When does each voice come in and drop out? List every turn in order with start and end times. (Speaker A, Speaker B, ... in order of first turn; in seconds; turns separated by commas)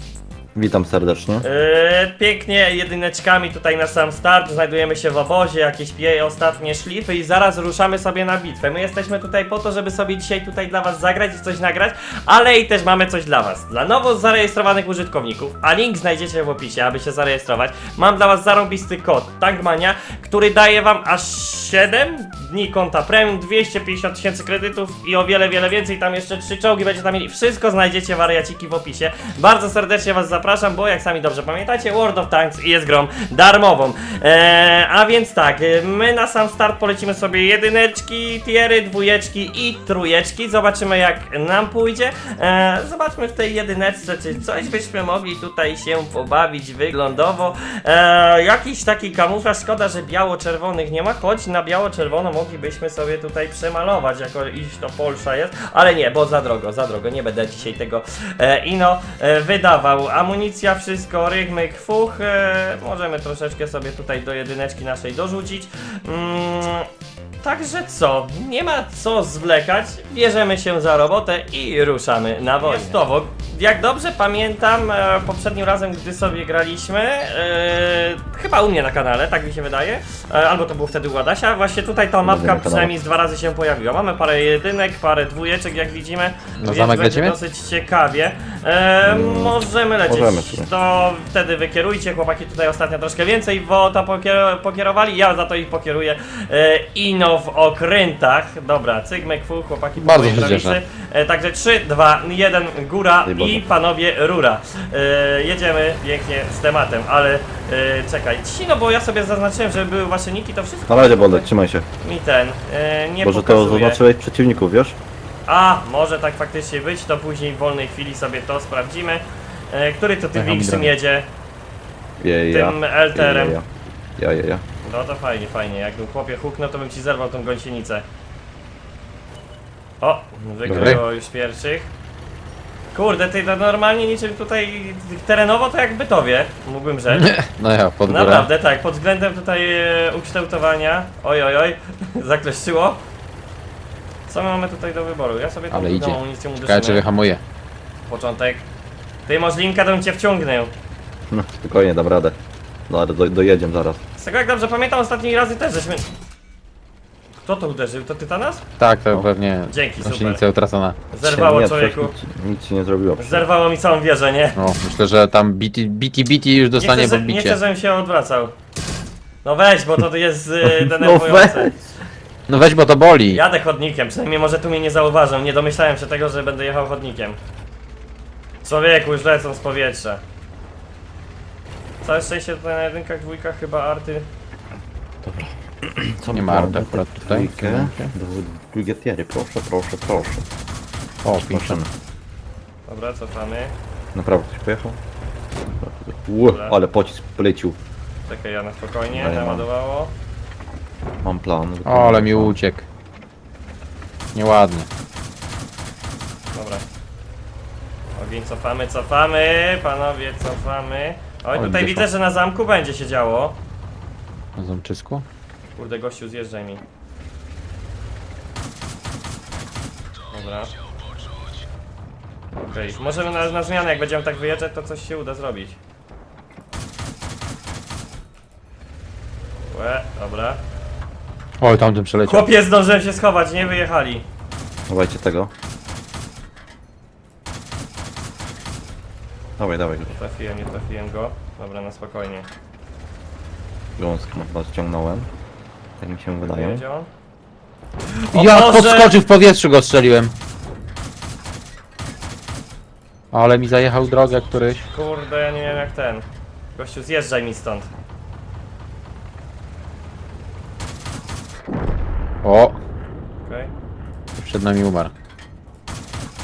Speaker A: 0.6-1.5, Speaker B: 1.4-66.9, Speaker B: 67.4-111.5, Speaker A: 82.2-83.0, Speaker C: 86.6-87.4, Speaker A: 89.0-90.7, Speaker C: 100.0-100.8, Speaker A: 103.2-103.7, Speaker A: 110.9-111.9, Speaker B: 112.0-114.0, Speaker A: 113.2-115.0, Speaker B: 115.5-121.3, Speaker C: 120.4-120.9, Speaker A: 122.2-124.7, Speaker B: 122.5-123.6, Speaker B: 124.8-128.1, Speaker B: 130.0-131.9, Speaker C: 130.7-131.0, Speaker B: 132.9-137.3, Speaker C: 137.1-138.5, Speaker B: 138.1-143.0, Speaker B: 144.3-147.0, Speaker C: 145.7-147.4, Speaker B: 148.1-148.7, Speaker B: 149.3-150.7, Speaker A: 151.3-152.4, Speaker A: 152.9-154.0, Speaker B: 154.2-156.1, Speaker B: 157.4-158.6, Speaker C: 158.8-161.0, Speaker B: 159.7-160.4, Speaker B: 161.1-162.1, Speaker A: 161.2-163.5, Speaker B: 163.2-164.6, Speaker C: 164.6-167.6, Speaker B: 166.8-168.6, Speaker B: 169.4-171.8, Speaker A: 170.6-171.8, Speaker C: 172.5-173.4, Speaker B: 173.3-177.4, Speaker B: 178.6-180.2, Speaker B: 182.0-184.3, Speaker A: 185.2-190.5, Speaker C: 186.3-188.1, Speaker C: 191.2-191.8, Speaker A: 191.3-191.9, Speaker B: 192.9-193.7, Speaker A: 194.1-195.0, Speaker A: 195.8-197.8, Speaker B: 196.5-196.8, Speaker B: 198.3-200.1, Speaker A: 199.1-199.7, Speaker A: 201.2-202.6, Speaker C: 201.9-202.8, Speaker C: 204.3-204.9, Speaker B: 206.5-206.8, Speaker B: 208.2-213.6, Speaker C: 211.6-212.1, Speaker C: 214.6-215.2, Speaker B: 215.8-216.8, Speaker B: 220.3-220.7, Speaker B: 222.6-225.8, Speaker B: 229.7-230.6, Speaker C: 231.6-232.5, Speaker B: 232.3-234.2, Speaker A: 234.9-235.5, Speaker A: 239.6-240.2, Speaker B: 240.1-242.5, Speaker A: 244.0-245.3, Speaker A: 246.0-246.8, Speaker B: 246.5-247.1, Speaker B: 248.2-249.2, Speaker C: 248.3-250.3, Speaker C: 253.3-254.9, Speaker B: 254.9-256.2, Speaker B: 256.8-257.9, Speaker C: 262.4-262.8, Speaker B: 263.4-263.7, Speaker C: 264.4-265.1